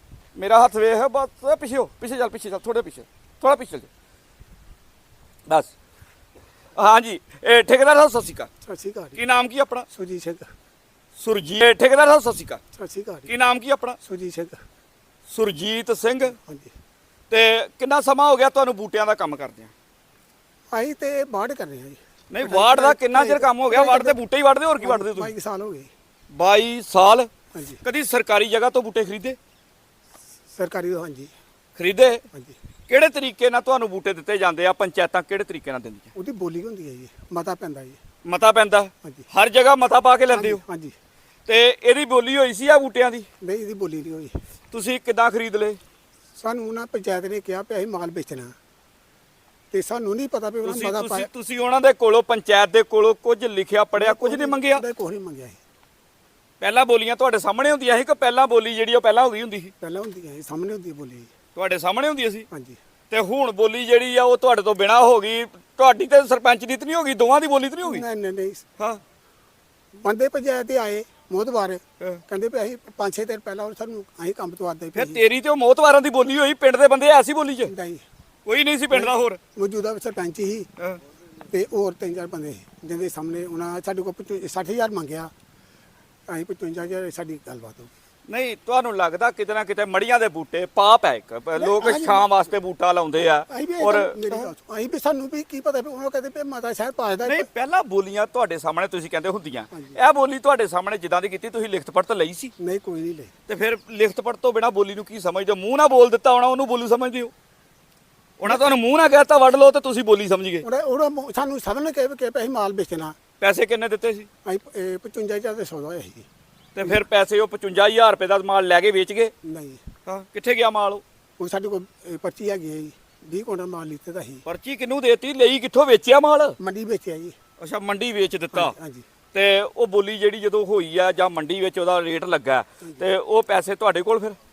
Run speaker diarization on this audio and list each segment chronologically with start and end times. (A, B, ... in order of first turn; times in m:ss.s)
0:00.3-0:03.9 A
0:06.8-0:08.5 A
0:08.6-0:09.2 B
0:09.2-0:09.9 A
0:09.9-0:10.5 B
0:11.2-0:12.6 A
0:12.7-0:13.3 B
0:13.3-0:14.0 A
0:14.0-0:14.6 B
0:15.3-0:16.4 A
0:16.4-0:16.7 B
0:17.3-0:19.7 A
0:20.7-0:24.2 B
0:22.3-0:25.3 A
0:24.8-0:25.9 B
0:26.3-0:27.3 A
0:27.5-0:27.8 B
0:27.8-0:29.4 A
0:30.5-0:31.3 B
0:31.8-0:32.2 A
0:32.9-0:36.1 A
0:36.1-0:38.0 B
0:38.2-0:40.6 A
0:40.3-0:40.9 B
0:41.5-0:43.3 A
0:43.4-0:44.3 B
0:44.7-0:45.8 A
0:46.4-0:48.5 B
0:49.7-0:51.3 B
0:50.6-0:54.8 A
0:54.0-0:55.6 B
0:56.6-0:59.7 A
0:59.8-1:01.3 B
1:01.5-1:02.4 A
1:02.5-1:02.8 B
1:03.1-1:08.0 A
1:07.8-1:08.6 B
1:10.0-1:15.2 B
1:14.9-1:17.7 A
1:17.6-1:18.0 B
1:18.4-1:19.4 A
1:18.9-1:20.7 B
1:21.5-1:25.3 B
1:26.3-1:27.9 B
1:28.3-1:34.5 A
1:31.6-1:32.3 B
1:33.4-1:37.5 B
1:37.2-1:42.5 A
1:39.7-1:40.0 B
1:42.6-1:43.3 B
1:43.5-1:47.3 A
1:48.4-1:50.6 A
1:50.6-1:53.2 B
1:53.4-1:54.3 A
1:54.4-1:56.3 B
1:56.7-1:59.3 A
1:59.4-1:59.8 B
2:00.0-2:01.0 A
2:01.4-2:04.4 B
2:04.4-2:06.6 A
2:06.6-2:07.3 B
2:07.6-2:08.7 A
2:08.5-2:09.0 B
2:09.3-2:14.4 A